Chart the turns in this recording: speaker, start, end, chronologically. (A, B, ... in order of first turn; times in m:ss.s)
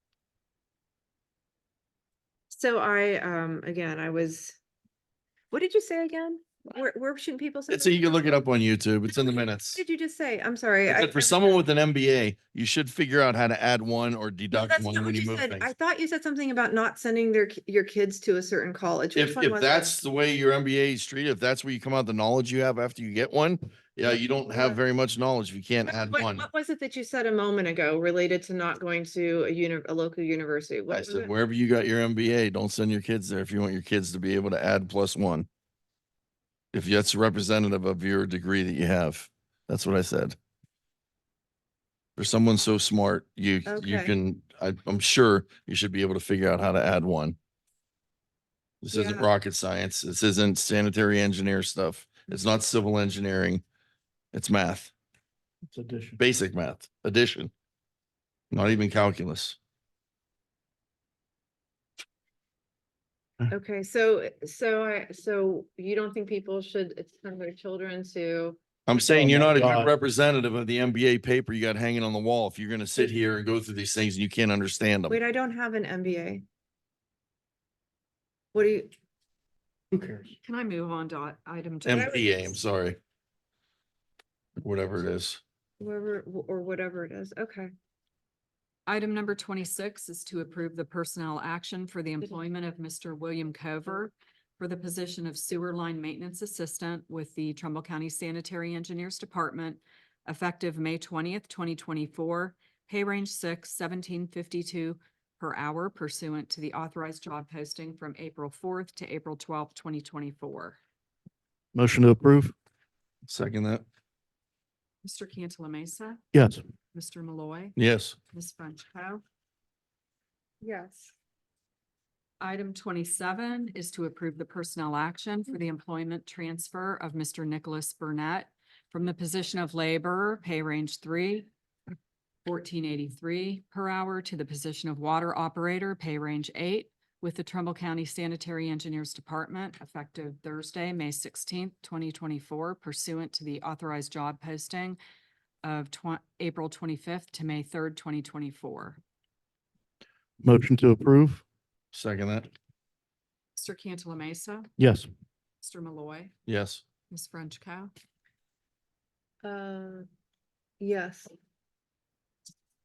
0:02.5-0:04.6 A
0:05.5-0:08.4 A
0:07.7-0:09.8 B
0:09.1-0:11.6 A
0:10.9-0:15.7 B
0:14.5-0:19.9 A
0:19.1-0:26.4 B
0:24.2-0:24.8 A
0:25.9-0:31.3 A
0:30.9-0:35.5 B
0:36.7-0:40.4 B
0:42.2-0:47.4 B
0:43.6-0:44.1 A
0:48.8-0:53.6 B
0:48.9-0:49.3 A
0:54.3-0:54.9 B
0:55.7-0:56.2 C
0:56.2-0:57.5 B
0:58.5-0:59.6 B
1:03.5-1:08.6 A
1:08.9-1:15.2 B
1:09.0-1:09.9 C
1:15.1-1:16.4 A
1:18.5-1:18.9 A
1:19.9-1:20.3 C
1:20.4-1:22.5 D
1:21.8-1:23.0 B
1:24.6-1:25.4 B
1:25.8-1:27.7 A
1:28.9-1:50.8 D
1:51.7-1:52.5 C
1:53.3-1:53.8 B
1:55.0-1:56.2 D
1:56.3-1:56.6 C
1:56.9-1:57.8 D
1:57.8-1:58.2 B
1:58.3-1:59.2 D
2:00.6-2:01.1 A
2:02.4-2:11.5 D
2:12.4-2:25.0 D
2:25.6-2:29.0 D
2:30.4-2:31.4 C
2:31.9-2:32.5 B
2:33.6-2:34.7 D
2:34.8-2:35.1 C
2:35.6-2:36.3 D
2:36.5-2:36.8 B
2:37.1-2:37.9 D
2:39.4-2:40.1 A
2:40.8-2:41.3 A